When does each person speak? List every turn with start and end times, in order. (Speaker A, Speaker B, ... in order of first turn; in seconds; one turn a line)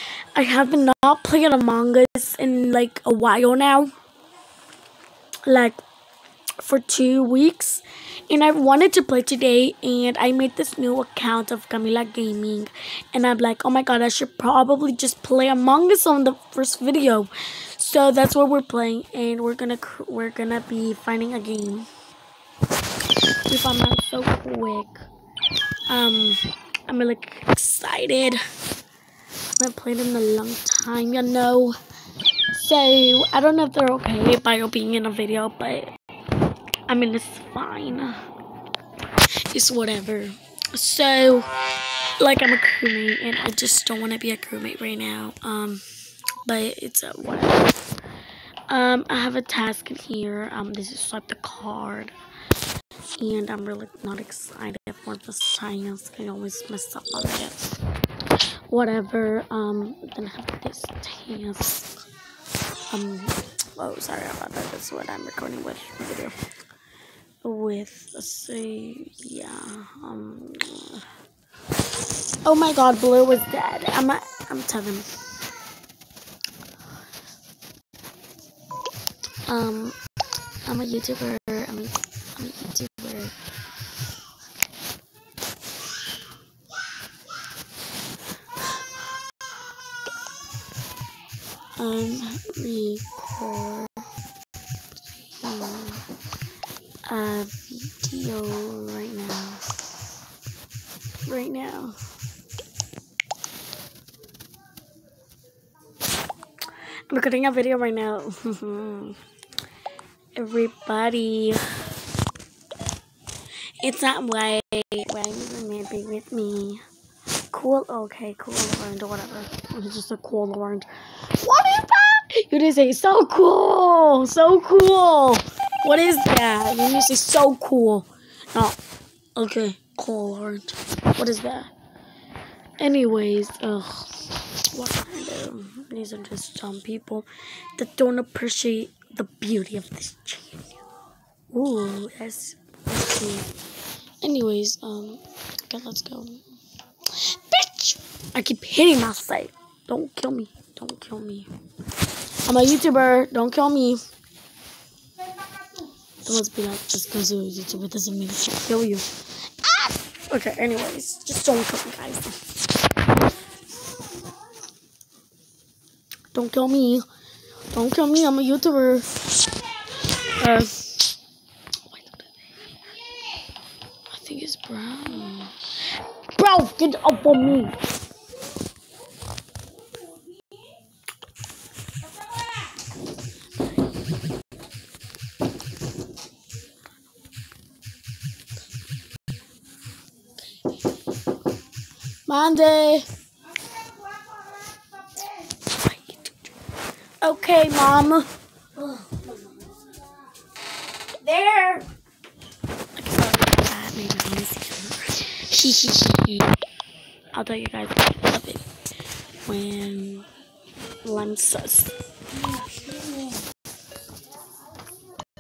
Speaker A: 0.3-3.9
Speaker A: 5.5-5.8
Speaker A: 6.6-21.9
Speaker A: 23.5-25.0
Speaker A: 25.9-28.4
Speaker A: 29.6-31.8
Speaker A: 32.5-35.9
Speaker A: 36.9-38.2
Speaker A: 39.5-41.5
Speaker A: 42.2-45.8
Speaker A: 46.4-47.8
Speaker A: 48.7-52.1
Speaker A: 53.2-57.8
Speaker A: 58.7-61.9
Speaker A: 62.9-66.4
Speaker A: 67.4-71.1
Speaker A: 72.4-75.1
Speaker A: 79.5-80.0
Speaker A: 80.7-83.3
Speaker A: 91.8-94.1
Speaker A: 95.1-96.0
Speaker A: 97.1-99.7
Speaker A: 101.2-102.0
Speaker A: 107.1-109.2
Speaker A: 110.3-111.6
Speaker A: 113.8-116.8
Speaker A: 117.5-128.8
Speaker A: 129.4-131.7
Speaker A: 132.8-140.8
Speaker A: 141.5-143.5
Speaker A: 144.2-146.4
Speaker A: 147.1-151.5
Speaker A: 152.4-154.0
Speaker A: 156.2-159.1
Speaker A: 159.6-162.4
Speaker A: 166.3-167.1
Speaker A: 167.7-169.1
Speaker A: 170.4-171.2
Speaker A: 171.9-172.6
Speaker A: 174.1-175.6
Speaker A: 176.3-177.8
Speaker A: 192.3-193.1
Speaker A: 195.5-196.5
Speaker A: 197.2-199.7
Speaker A: 201.2-201.9
Speaker A: 203.0-206.5
Speaker A: 207.3-208.7
Speaker A: 209.4-210.3
Speaker A: 211.0-213.4